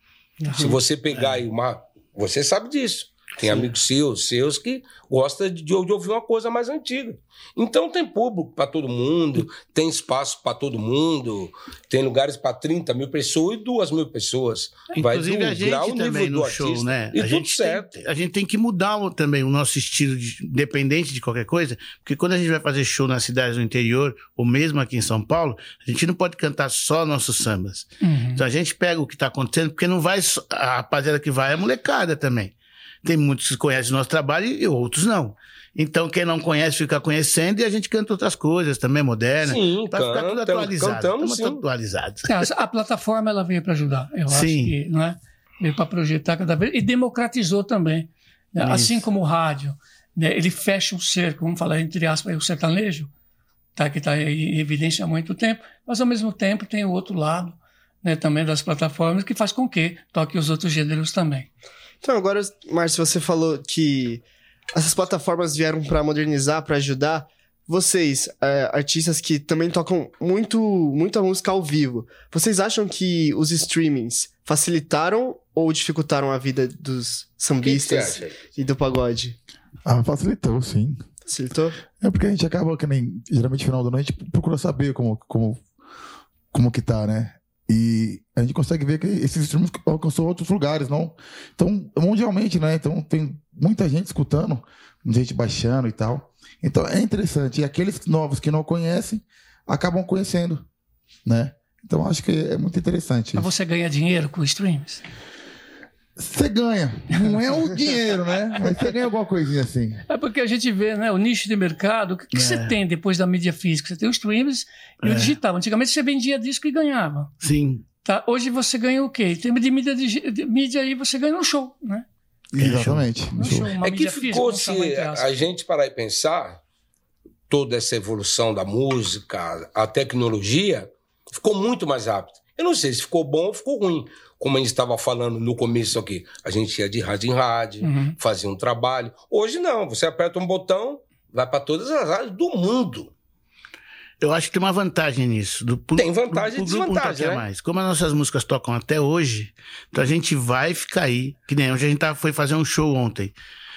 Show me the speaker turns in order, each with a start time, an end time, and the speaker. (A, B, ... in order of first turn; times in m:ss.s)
0:00.4-0:00.8 A
0:00.5-0:17.9 B
0:03.4-0:03.7 C
0:14.9-0:42.4 C
0:28.0-0:28.4 A
0:39.4-0:41.6 B
0:42.3-0:53.1 A
0:44.3-0:44.8 C
0:48.6-0:49.1 C
0:53.8-1:01.5 A
1:02.0-1:04.2 D
1:04.7-1:19.4 D
1:17.6-1:18.4 B
1:19.9-1:21.1 E
1:21.3-1:21.8 D
1:22.0-1:25.6 E
1:26.5-1:40.6 E
1:41.2-1:43.5 E
1:43.3-1:45.0 A
1:46.2-1:50.0 E
1:50.1-1:57.3 A
1:52.3-1:52.7 C
1:55.0-1:55.4 C
1:57.4-1:57.8 C
1:58.0-2:02.1 A
2:02.5-2:03.7 E
2:02.6-2:03.1 C
2:03.4-2:05.3 A
2:03.8-2:06.6 B
2:07.5-2:23.1 B
2:17.8-2:18.2 A
2:24.2-2:33.3 C
2:26.0-2:27.4 B